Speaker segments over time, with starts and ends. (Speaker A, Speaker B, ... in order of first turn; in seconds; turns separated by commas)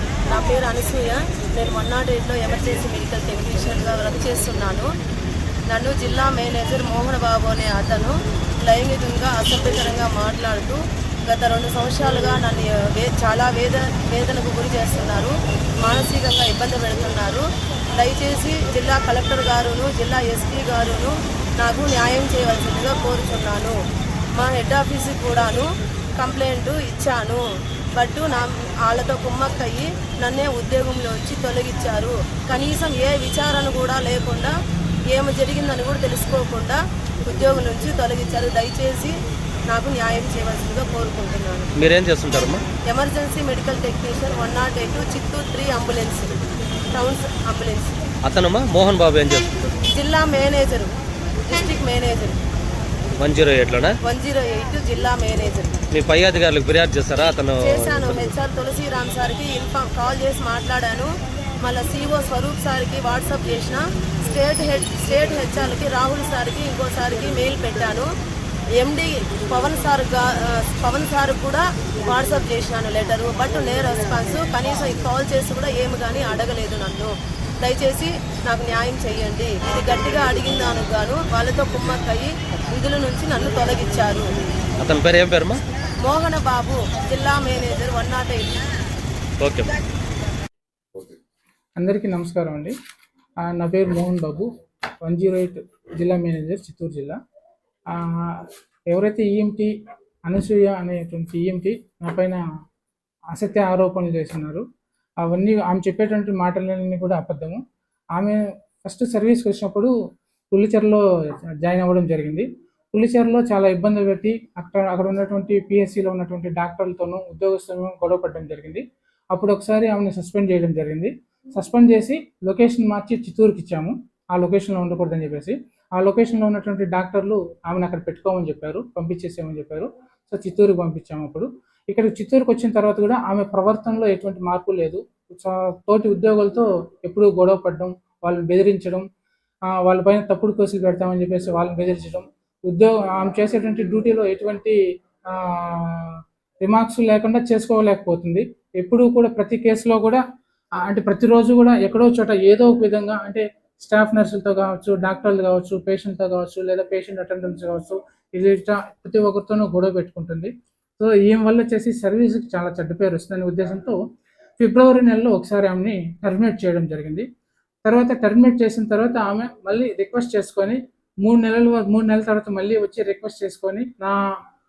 Speaker A: 0.2-4.9, Speaker A: 5.7-23.8, Speaker A: 24.3-27.4, Speaker A: 27.9-34.5, Speaker A: 35.1-39.2, Speaker A: 39.7-41.7, Speaker B: 41.8-42.6, Speaker A: 42.9-46.4, Speaker A: 46.9-48.0, Speaker B: 48.2-49.8, Speaker A: 49.9-50.9, Speaker A: 51.5-52.4, Speaker B: 53.2-53.9, Speaker A: 54.0-55.8, Speaker B: 55.9-58.1, Speaker A: 57.6-68.1, Speaker A: 68.8-84.3, Speaker B: 84.8-85.6, Speaker A: 86.0-88.6, Speaker B: 89.4-89.7, Speaker C: 91.8-92.7, Speaker C: 93.5-94.5, Speaker C: 95.0-97.2, Speaker C: 97.9-99.7, Speaker C: 100.2-102.4, Speaker C: 103.3-104.6, Speaker C: 105.2-107.6, Speaker C: 108.2-109.9, Speaker C: 110.5-111.0, Speaker C: 111.6-139.0, Speaker C: 139.7-144.8, Speaker C: 145.3-150.2, Speaker C: 150.8-164.0, Speaker C: 164.6-167.2, Speaker C: 167.8-174.2